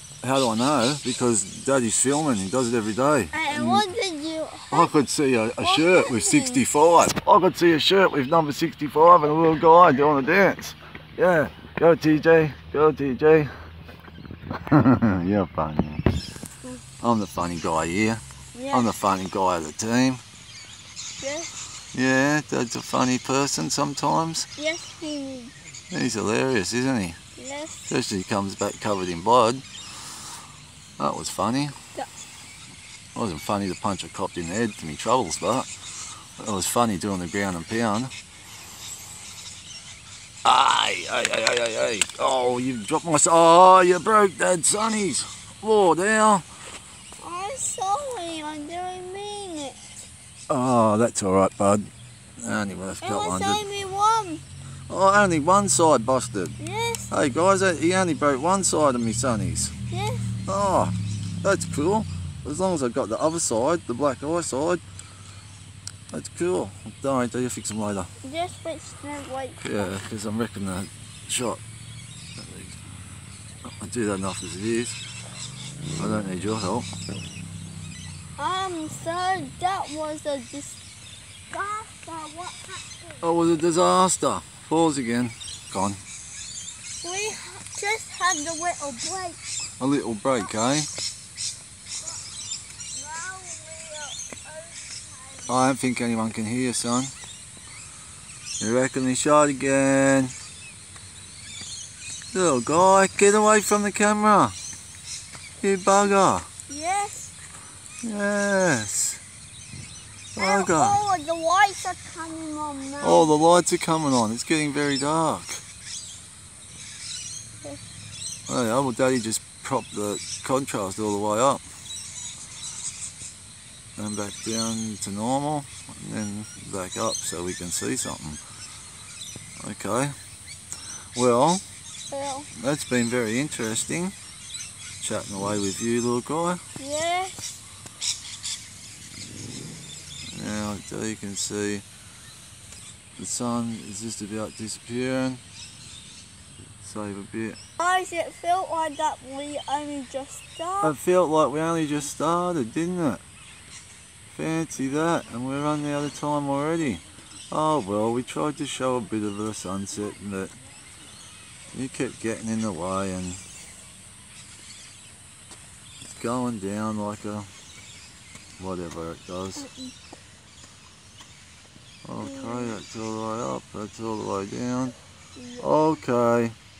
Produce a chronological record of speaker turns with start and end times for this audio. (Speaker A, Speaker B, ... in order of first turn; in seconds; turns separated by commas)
Speaker A: 0.2-3.8, Speaker B: 3.3-4.9, Speaker A: 4.7-13.5, Speaker B: 5.6-6.6, Speaker A: 14.5-16.0, Speaker A: 17.0-18.2, Speaker B: 18.5-18.9, Speaker A: 18.7-20.2, Speaker B: 21.2-21.5, Speaker A: 21.9-24.5, Speaker B: 24.6-25.5, Speaker A: 25.9-27.2, Speaker B: 27.4-27.9, Speaker A: 27.9-29.6, Speaker A: 31.0-31.7, Speaker B: 31.9-32.2, Speaker A: 33.1-35.7, Speaker A: 36.4-38.1, Speaker A: 40.4-46.5, Speaker B: 47.2-49.9, Speaker A: 50.5-53.6, Speaker B: 53.0-54.4, Speaker A: 54.9-56.5, Speaker B: 56.6-57.1, Speaker A: 57.1-59.7, Speaker B: 59.9-60.3, Speaker A: 60.5-64.8, Speaker A: 66.1-68.1, Speaker B: 68.2-69.9, Speaker A: 69.6-71.6, Speaker A: 72.4-72.8, Speaker A: 73.6-75.0, Speaker A: 76.0-76.9, Speaker B: 78.4-80.8, Speaker B: 81.5-83.2, Speaker A: 83.2-86.0, Speaker B: 87.0-89.4, Speaker A: 89.8-90.9, Speaker B: 92.9-95.6, Speaker A: 95.5-97.1, Speaker A: 98.6-100.3, Speaker A: 102.3-104.5, Speaker A: 105.6-106.5, Speaker B: 106.7-107.3, Speaker A: 108.0-109.2, Speaker A: 110.3-111.0, Speaker B: 110.4-113.3, Speaker A: 113.0-115.6, Speaker A: 118.5-121.6, Speaker A: 124.0-128.4, Speaker A: 129.6-130.1, Speaker A: 131.1-131.6, Speaker B: 132.1-132.5, Speaker A: 132.5-134.1, Speaker A: 135.0-136.6, Speaker B: 136.8-137.5, Speaker A: 140.3-141.8, Speaker A: 143.2-145.4, Speaker A: 146.8-147.6, Speaker B: 147.8-150.9, Speaker A: 150.8-153.2, Speaker A: 154.3-160.5, Speaker A: 161.7-163.4, Speaker A: 166.0-167.5, Speaker A: 168.6-169.7, Speaker B: 169.6-169.9, Speaker A: 172.0-174.9, Speaker B: 172.2-172.8, Speaker B: 175.4-176.0, Speaker A: 175.6-176.5